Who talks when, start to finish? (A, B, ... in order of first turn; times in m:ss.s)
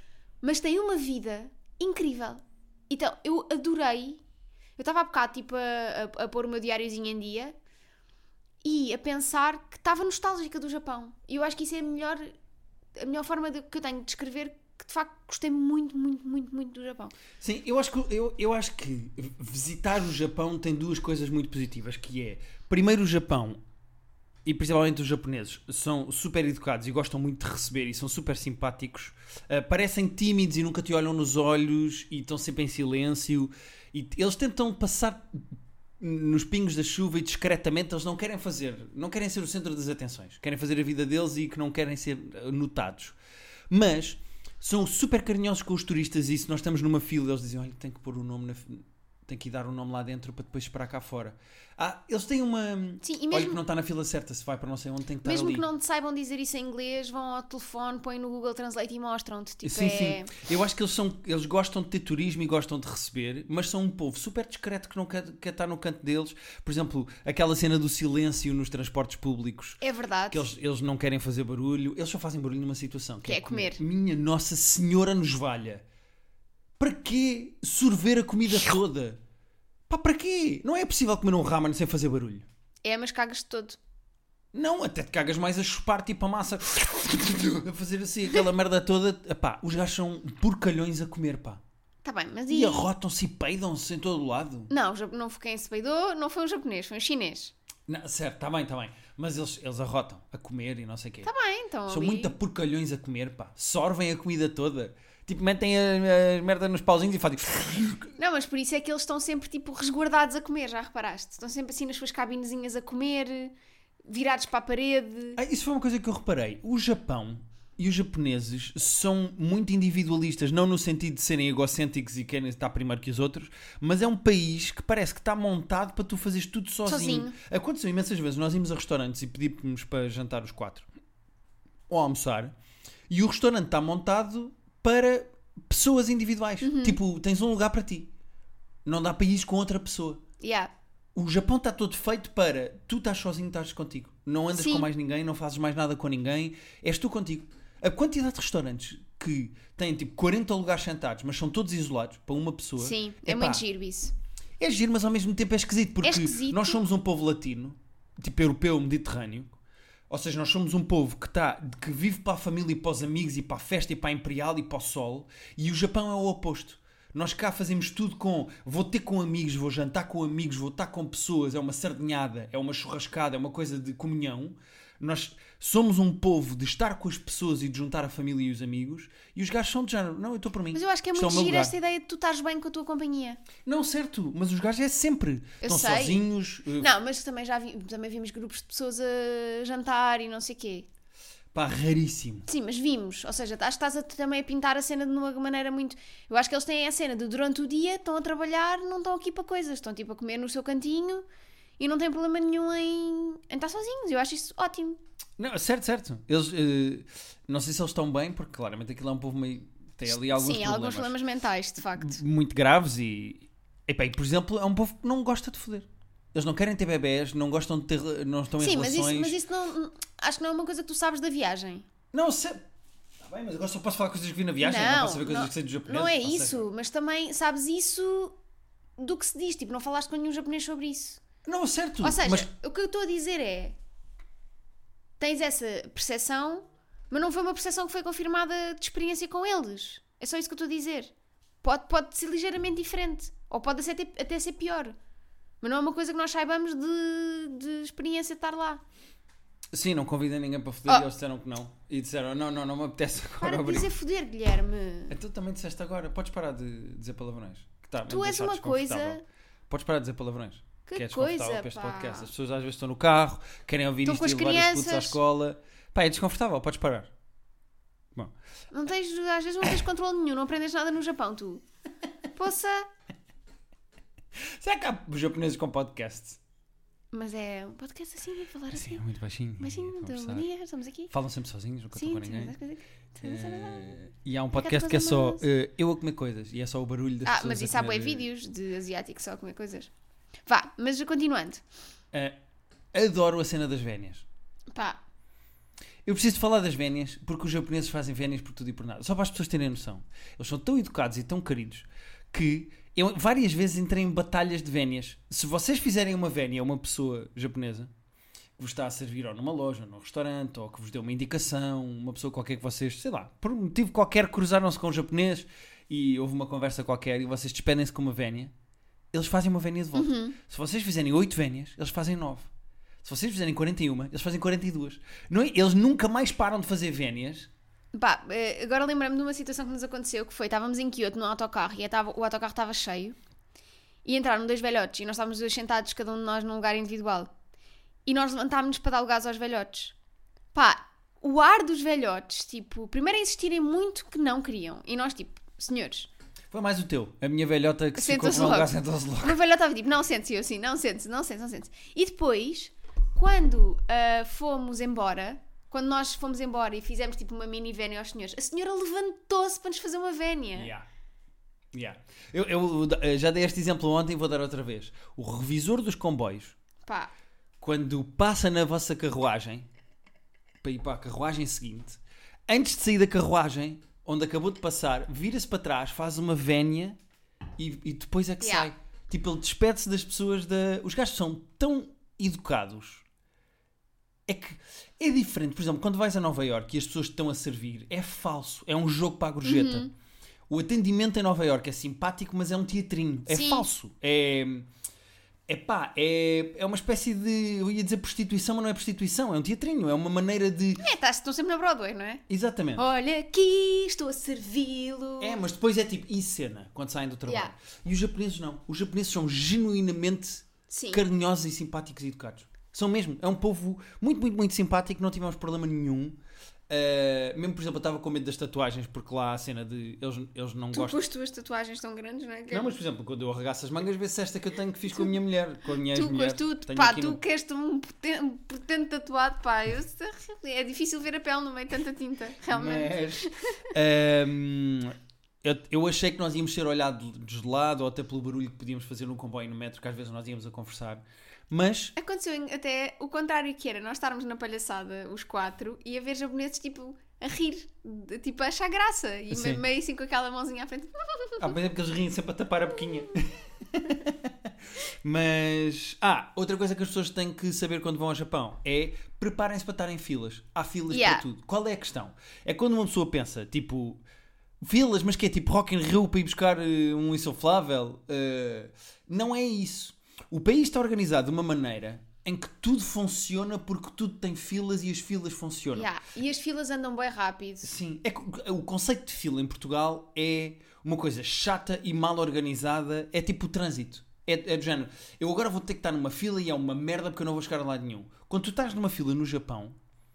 0:00.4-0:04.2 A
0:04.8-0:07.6 A
0:08.6-0:12.3 A
0:13.0-0:17.1 A
0:17.4-0:23.6 B
0:24.4-0:43.2 B
0:43.7-0:55.7 B
0:53.0-0:53.6 A
0:55.2-1:00.3 A
0:59.6-1:09.8 B
1:09.8-1:10.5 A
1:10.3-1:15.8 B
1:13.2-1:13.8 A
1:16.8-1:19.2 B
1:19.9-1:22.4 B
1:22.8-1:23.8 A
1:24.5-1:31.6 B
1:32.0-1:32.9 A
1:32.5-1:34.7 B
1:34.7-1:37.5 A
1:37.9-1:41.3 B
1:41.2-1:42.4 A
1:41.9-1:48.2 B
1:48.2-1:53.5 A
1:54.1-1:55.4 A
1:55.4-2:10.9 B
2:06.8-2:07.4 A
2:11.9-2:12.5 B
2:13.1-2:18.1 B
2:16.6-2:17.0 A
2:18.8-2:20.2 B
2:20.4-2:20.7 A
2:21.2-2:33.6 B
2:24.5-2:24.9 A
2:32.8-2:34.1 A
2:34.6-2:39.6 B
2:36.0-2:36.8 A
2:40.1-3:01.7 B
3:00.7-3:03.4 A
3:03.7-3:06.9 B
3:05.6-3:06.2 A
3:06.8-3:10.9 A
3:11.5-3:12.5 B
3:12.5-3:21.2 A
3:21.8-3:25.0 A
3:25.4-3:31.2 B
3:30.1-3:32.2 A
3:31.8-3:39.4 B
3:38.6-3:41.9 A
3:42.1-3:42.6 B
3:43.2-3:46.7 B
3:44.6-3:48.4 A
3:49.0-3:51.2 A
3:51.4-3:52.5 B
3:52.0-3:53.8 A
3:55.2-4:01.1 A
4:01.6-4:05.0 A
4:05.6-4:08.8 A
4:09.7-4:13.9 B
4:13.4-4:15.2 A
4:15.1-4:27.1 B
4:18.1-4:19.2 A
4:20.9-4:22.3 A
4:24.0-4:25.2 A
4:28.7-4:31.6 A
4:32.4-4:32.9 A
4:34.4-4:36.4 B
4:37.1-4:39.0 A
4:38.7-4:40.5 B
4:39.6-4:41.1 A
4:41.1-4:42.6 B
4:41.9-4:44.0 A
4:43.2-4:48.3 B
4:44.5-4:45.4 A
4:47.2-4:49.9 A
4:50.5-4:51.6 A
4:52.9-4:54.2 B
4:54.7-4:55.0 A
4:56.1-5:07.9 B
5:08.6-5:18.5 B
5:19.1-5:22.5 B
5:19.9-5:20.4 A
5:23.0-5:27.5 B
5:27.9-5:33.2 A
5:34.0-5:37.3 A
5:38.1-5:40.0 A
5:40.5-5:46.1 A
5:46.5-5:49.4 B
5:48.0-6:00.7 A
6:00.6-6:00.8 B
6:01.7-6:06.6 B
6:06.9-6:07.1 A
6:07.6-6:09.7 B
6:10.6-6:17.0 B
6:17.6-6:23.0 B
6:18.4-6:18.7 A
6:24.3-6:29.9 B
6:29.4-6:29.9 A
6:30.5-6:34.7 B
6:33.3-6:33.7 A
6:35.5-6:40.9 B
6:40.8-6:42.2 A
6:42.3-6:42.8 B
6:42.8-6:45.4 A
6:45.2-6:56.2 B
6:47.3-6:47.5 A
6:50.7-6:51.0 A
6:56.7-7:01.0 B
7:00.7-7:02.8 A
7:02.5-7:07.2 B
7:05.9-7:13.7 A
7:12.5-7:22.0 B
7:22.0-7:31.6 A
7:29.3-7:29.6 B
7:31.4-7:44.0 B
7:40.9-7:41.2 A
7:44.6-7:55.9 B
7:55.7-7:57.7 A
7:57.6-8:09.8 B